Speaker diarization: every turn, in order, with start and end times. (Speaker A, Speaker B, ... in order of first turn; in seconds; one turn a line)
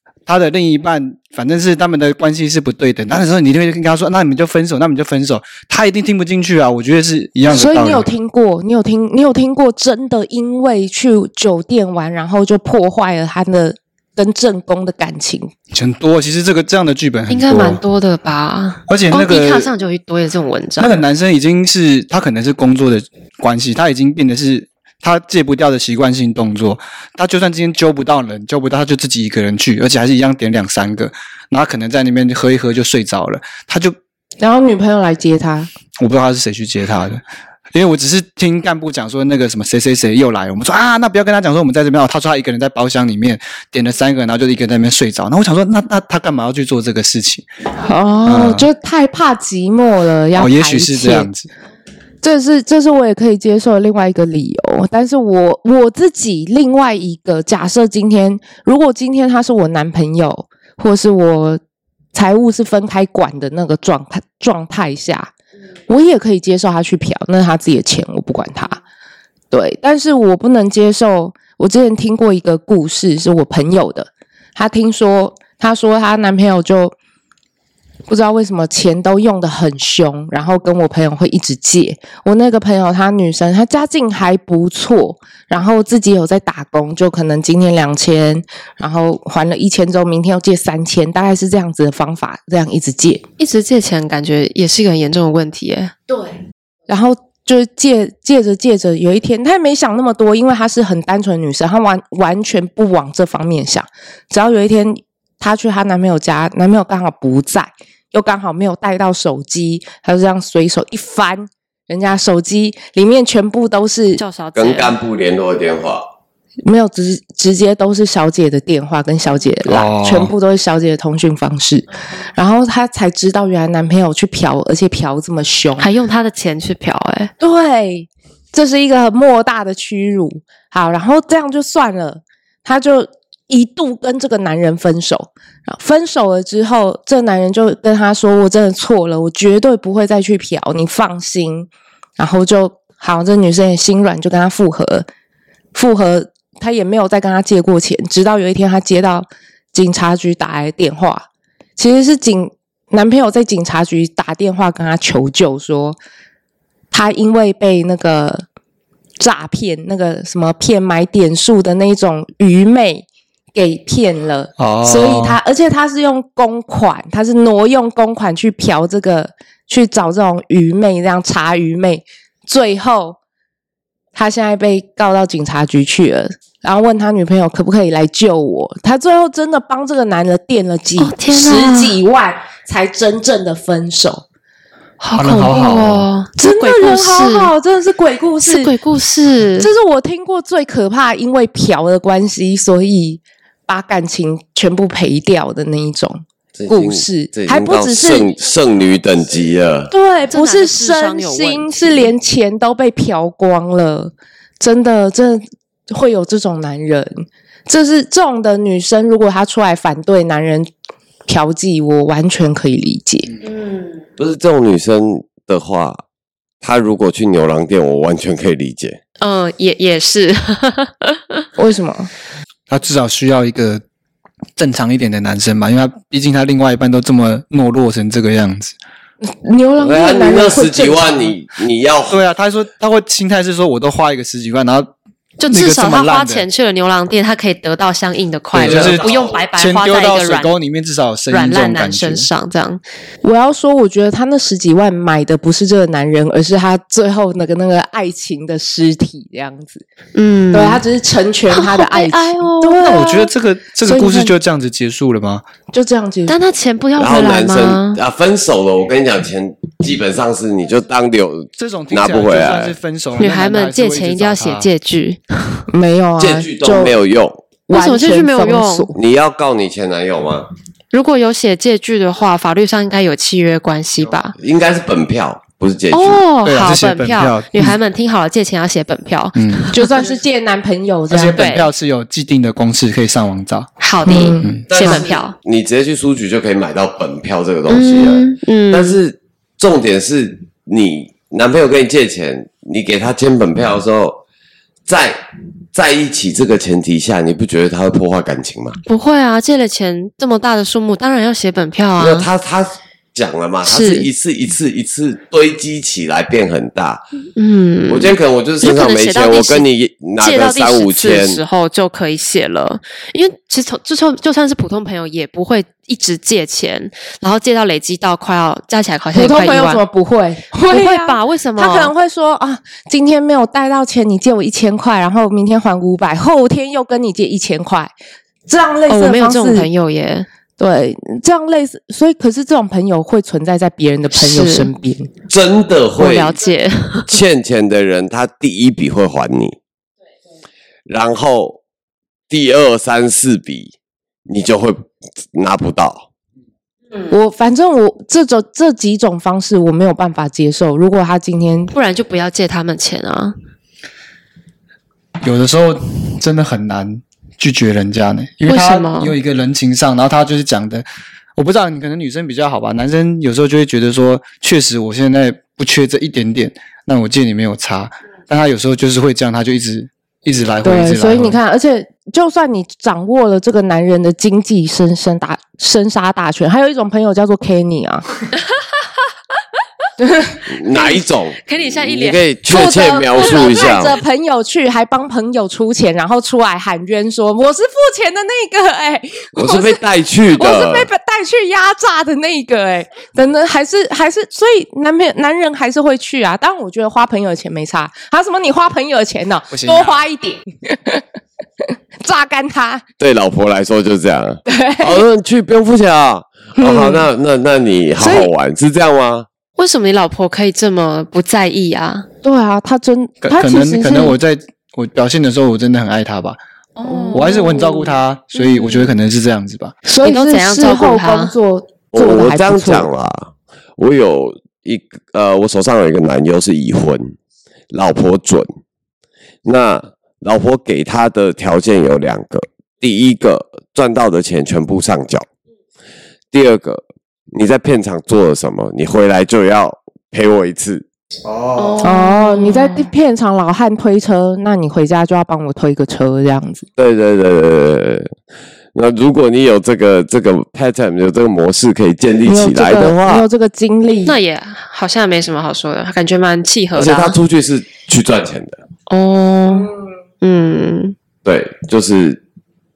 Speaker A: 0.2-8.1
Speaker B: 7.5-15.5
Speaker A: 15.7-17.8
Speaker C: 17.3-20.9
Speaker A: 18.9-19.7
Speaker A: 20.8-33.9
Speaker B: 34.4-35.7
Speaker A: 36.0-37.2
Speaker A: 37.7-47.5
Speaker B: 47.8-51.3
Speaker A: 48.2-48.7
Speaker A: 50.3-51.5
Speaker B: 52.2-61.6
Speaker B: 62.1-65.3
Speaker B: 65.9-68.8
Speaker B: 69.5-76.9
Speaker B: 78.1-93.2
Speaker C: 93.4-95.9
Speaker B: 96.1-96.3
Speaker B: 96.9-114.2
Speaker C: 114.2-114.9
Speaker D: 114.5-116.0
Speaker B: 116.7-125.9
Speaker A: 119.7-120.3
Speaker C: 125.8-127.3
Speaker B: 127.4-145.1
Speaker B: 145.7-151.2
Speaker B: 151.8-156.0
Speaker B: 156.9-158.4
Speaker B: 159.2-173.2
Speaker A: 164.6-165.4
Speaker B: 174.1-184.2
Speaker C: 181.0-182.0
Speaker C: 185.0-187.5
Speaker A: 185.2-186.1
Speaker B: 186.4-188.7
Speaker C: 188.4-189.7
Speaker B: 189.6-198.3
Speaker D: 196.5-199.9
Speaker B: 199.9-210.7
Speaker C: 200.3-202.1
Speaker B: 211.3-213.3
Speaker C: 213.4-214.0
Speaker D: 214.2-216.0
Speaker D: 216.6-219.0
Speaker C: 219.2-221.4
Speaker B: 221.6-222.1
Speaker A: 222.7-223.8
Speaker A: 224.6-228.7
Speaker B: 229.2-231.3
Speaker D: 229.8-232.2
Speaker A: 232.1-234.9
Speaker C: 235.4-240.5
Speaker A: 235.5-236.4
Speaker A: 238.5-242.3
Speaker D: 238.6-239.4
Speaker C: 241.3-242.8
Speaker B: 243.2-249.8
Speaker C: 250.1-250.8
Speaker B: 250.5-253.3
Speaker C: 251.5-253.0
Speaker A: 252.8-255.4
Speaker B: 253.8-254.3
Speaker B: 255.7-256.4
Speaker C: 256.3-258.0
Speaker D: 257.0-262.7
Speaker A: 261.6-264.7
Speaker C: 263.2-265.6
Speaker B: 265.7-266.9
Speaker D: 266.2-267.4
Speaker B: 267.7-268.9
Speaker C: 267.7-268.9
Speaker D: 268.9-270.5
Speaker C: 270.9-274.3
Speaker D: 274.4-276.2
Speaker C: 275.9-280.1
Speaker A: 276.4-277.8
Speaker A: 279.4-279.7
Speaker B: 279.7-281.4
Speaker A: 281.1-283.7
Speaker C: 281.4-281.7
Speaker C: 283.8-285.3
Speaker B: 284.1-285.1
Speaker A: 284.4-284.7
Speaker D: 284.7-294.2
Speaker C: 287.7-289.0
Speaker D: 294.9-295.2
Speaker D: 295.7-298.8
Speaker C: 298.9-302.3
Speaker D: 302.0-307.0
Speaker C: 303.6-304.1
Speaker C: 307.4-309.7
Speaker D: 307.9-311.4
Speaker C: 310.2-319.8
Speaker B: 319.1-327.9
Speaker C: 320.7-321.9
Speaker B: 328.5-329.7
Speaker C: 328.9-330.3
Speaker B: 330.6-335.1
Speaker C: 334.1-334.7
Speaker D: 335.3-336.4
Speaker C: 336.0-337.2
Speaker D: 337.1-339.6
Speaker D: 340.9-341.6
Speaker D: 342.3-343.7
Speaker D: 344.3-346.1
Speaker B: 347.1-351.7
Speaker C: 351.7-353.3
Speaker A: 355.2-360.8
Speaker C: 358.5-359.1
Speaker A: 361.4-371.4
Speaker B: 370.6-378.0
Speaker B: 380.0-380.4
Speaker D: 380.5-384.0
Speaker C: 380.7-383.7
Speaker B: 382.5-389.8
Speaker D: 389.3-390.9
Speaker B: 390.3-401.0
Speaker A: 399.5-400.0
Speaker B: 402.0-402.8
Speaker D: 403.0-409.3
Speaker B: 404.4-405.0
Speaker B: 406.6-407.1
Speaker B: 408.0-408.3
Speaker C: 409.6-412.1
Speaker B: 412.2-414.1
Speaker A: 413.2-416.4
Speaker C: 416.8-418.9
Speaker B: 416.9-417.5
Speaker A: 417.1-419.7
Speaker B: 419.8-422.9
Speaker C: 420.0-421.3
Speaker D: 421.9-427.1
Speaker D: 427.7-428.5
Speaker D: 429.4-435.2
Speaker D: 436.3-440.8
Speaker A: 441.3-441.7
Speaker C: 441.6-442.9
Speaker B: 441.8-446.6
Speaker D: 446.8-448.1
Speaker D: 448.7-453.2
Speaker B: 452.2-454.1
Speaker C: 454.0-457.2
Speaker D: 456.7-458.6
Speaker C: 458.9-460.9
Speaker D: 461.2-462.2